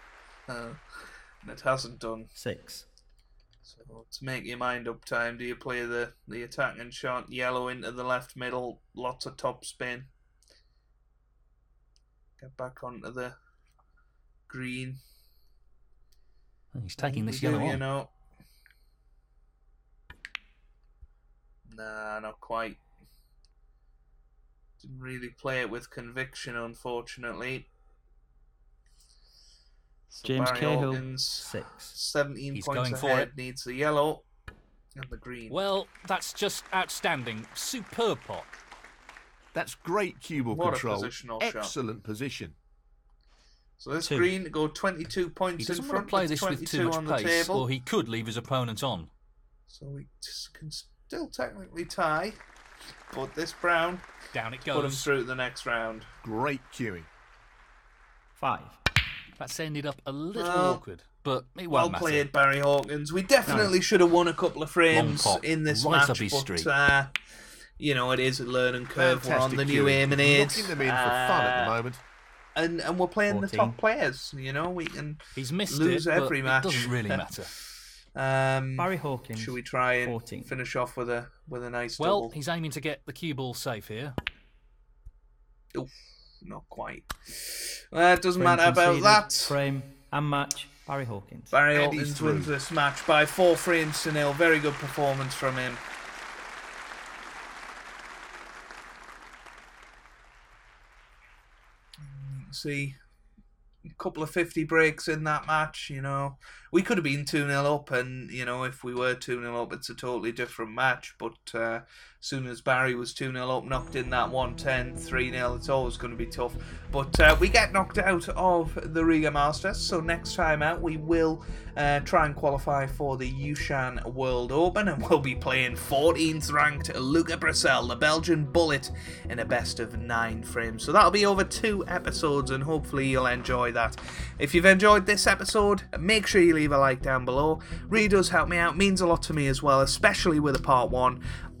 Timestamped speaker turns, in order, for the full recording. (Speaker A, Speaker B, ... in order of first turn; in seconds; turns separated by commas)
Speaker A: 0.5-2.3, Speaker B: 2.4-2.8, Speaker A: 3.6-10.1, Speaker A: 12.4-13.3, Speaker A: 14.5-15.0, Speaker C: 16.7-17.8, Speaker A: 17.0-18.1, Speaker A: 21.6-22.8, Speaker A: 24.8-27.7, Speaker A: 30.1-34.2, Speaker B: 30.2-31.9, Speaker C: 32.5-33.3, Speaker A: 35.0-35.6, Speaker C: 35.5-38.5, Speaker D: 39.5-42.5, Speaker A: 40.5-41.8, Speaker A: 43.8-47.6, Speaker B: 44.0-44.3, Speaker C: 45.6-49.1, Speaker A: 49.7-52.4, Speaker A: 53.1-54.1, Speaker C: 54.3-55.1, Speaker A: 54.7-56.1, Speaker D: 56.2-57.1, Speaker B: 58.4-58.8, Speaker C: 59.4-62.3, Speaker A: 60.3-60.8, Speaker A: 61.7-67.2, Speaker B: 63.5-63.8, Speaker C: 64.9-66.7, Speaker A: 67.8-71.7, Speaker D: 69.0-72.0, Speaker A: 72.5-77.6, Speaker B: 73.3-73.8, Speaker C: 75.3-77.5, Speaker A: 78.1-82.3, Speaker B: 78.8-80.5, Speaker C: 82.0-84.2, Speaker A: 86.4-89.6, Speaker B: 88.4-91.6, Speaker A: 91.5-95.8, Speaker D: 91.7-92.5, Speaker A: 102.0-103.0, Speaker A: 104.0-141.2